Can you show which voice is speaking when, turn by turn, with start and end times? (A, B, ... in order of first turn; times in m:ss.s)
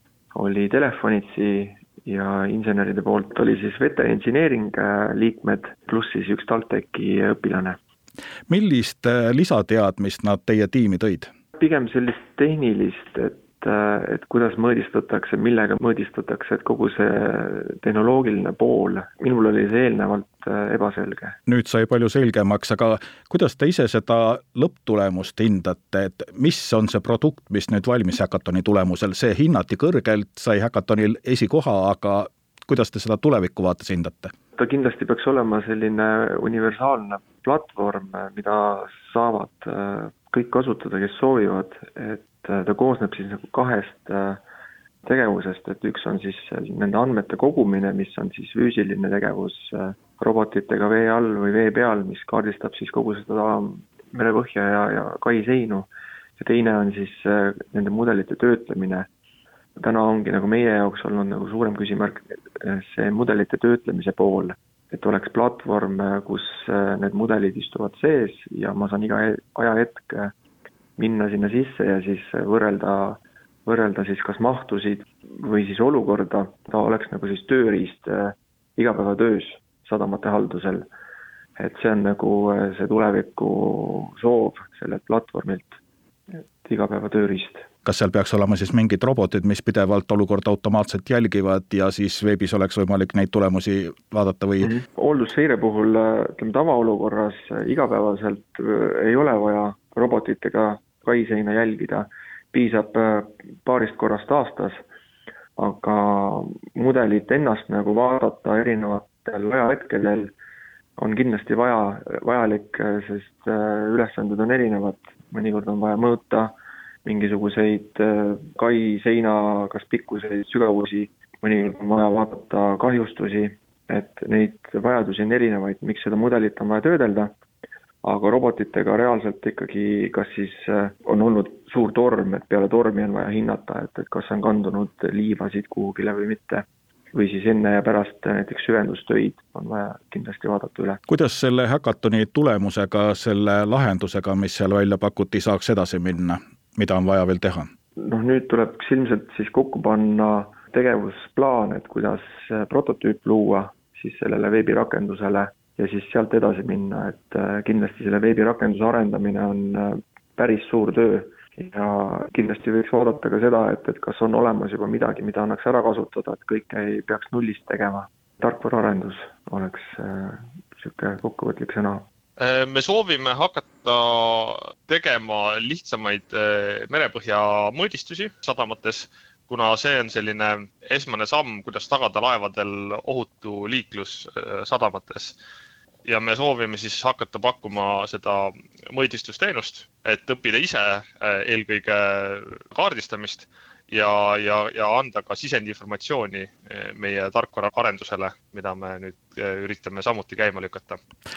0:00.3-0:07.8 A
0:08.5-0:11.3 B
0:11.6-0:21.4 A
0:21.4-0:34.3 B
0:34.6-0:44.4 A
0:45.0-0:55.9 A
0:56.4-0:59.1 A
0:59.8-1:10.3 A
1:11.0-1:20.9 A
1:21.6-1:25.8 A
1:26.3-1:27.7 A
1:27.8-1:34.7 B
1:34.6-1:44.8 A
1:45.6-1:50.3 A
1:51.0-1:56.5 A
1:57.0-2:07.3 A
2:08.0-2:21.0 A
2:21.1-2:27.7 B
2:28.0-2:52.0 A
2:52.4-3:05.4 C
3:06.0-3:21.0 C